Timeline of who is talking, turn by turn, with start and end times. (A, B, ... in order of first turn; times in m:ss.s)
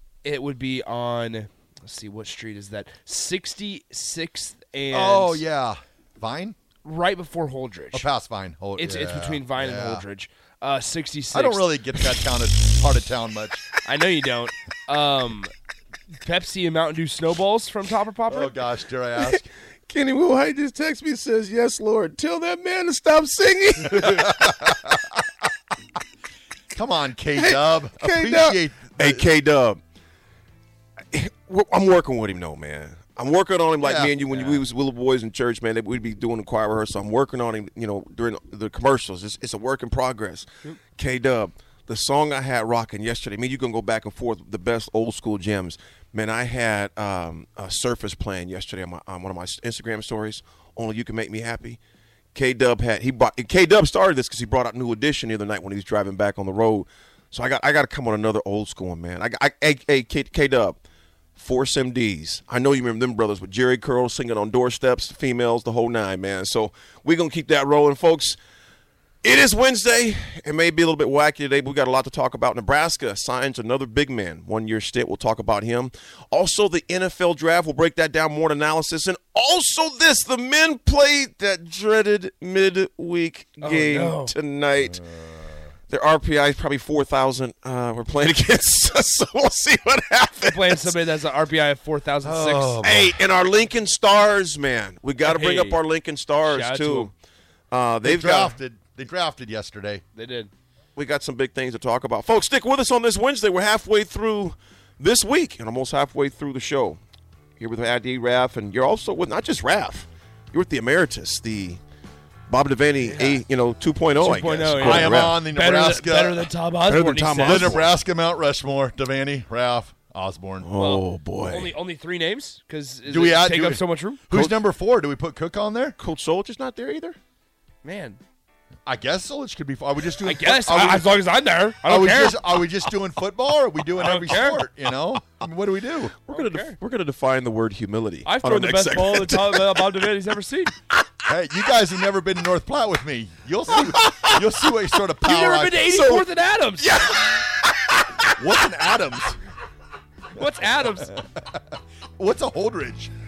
0:00.2-0:05.4 A
0:04.9-0:06.6 B
0:06.8-0:08.1 A
0:07.9-0:10.0 B
0:08.8-0:11.6 A
0:11.3-0:13.6 B
0:13.8-0:15.5 A
0:16.2-0:18.5 A
0:18.3-0:19.5 B
0:19.2-0:25.0 C
0:23.8-0:25.0 B
0:26.7-0:29.3 B
0:27.4-0:29.8 C
0:31.1-0:51.8 C
0:33.8-0:34.2 B
0:34.3-0:34.6 A
0:52.3-1:00.8 C
1:01.4-1:08.4 C
1:09.2-1:25.0 C
1:23.6-1:24.3 A
1:24.8-1:25.6 B
1:25.9-1:31.0 C
1:30.4-1:32.8 A
1:32.2-1:33.2 B
1:32.8-1:37.1 C
1:35.2-1:35.8 A
1:36.4-1:37.1 A
1:37.7-1:38.6 C
1:38.0-1:40.0 B
1:40.1-1:40.5 A
1:41.0-1:47.0 C
1:47.6-1:51.8 C
1:52.5-1:55.4 C
1:53.0-1:53.4 A
1:54.2-1:57.8 A
1:54.8-1:56.5 B
1:56.8-1:57.9 C
1:57.4-2:00.7 B
2:00.6-2:01.7 C
2:00.8-2:04.2 A
2:03.1-2:06.0 B
2:04.3-2:04.5 C
2:06.0-2:07.2 C
2:07.8-2:08.2 A
2:08.8-2:11.2 B
2:10.2-2:12.6 A
2:11.8-2:16.2 B
2:13.9-2:14.7 A
2:16.2-2:20.1 C
2:16.3-2:16.8 A
2:18.2-2:20.7 A
2:21.2-2:25.9 B
2:23.7-2:24.8 C
2:25.2-2:27.0 A
2:25.8-2:28.3 C
2:28.3-2:29.4 B
2:30.3-2:31.1 A
2:30.4-2:33.1 B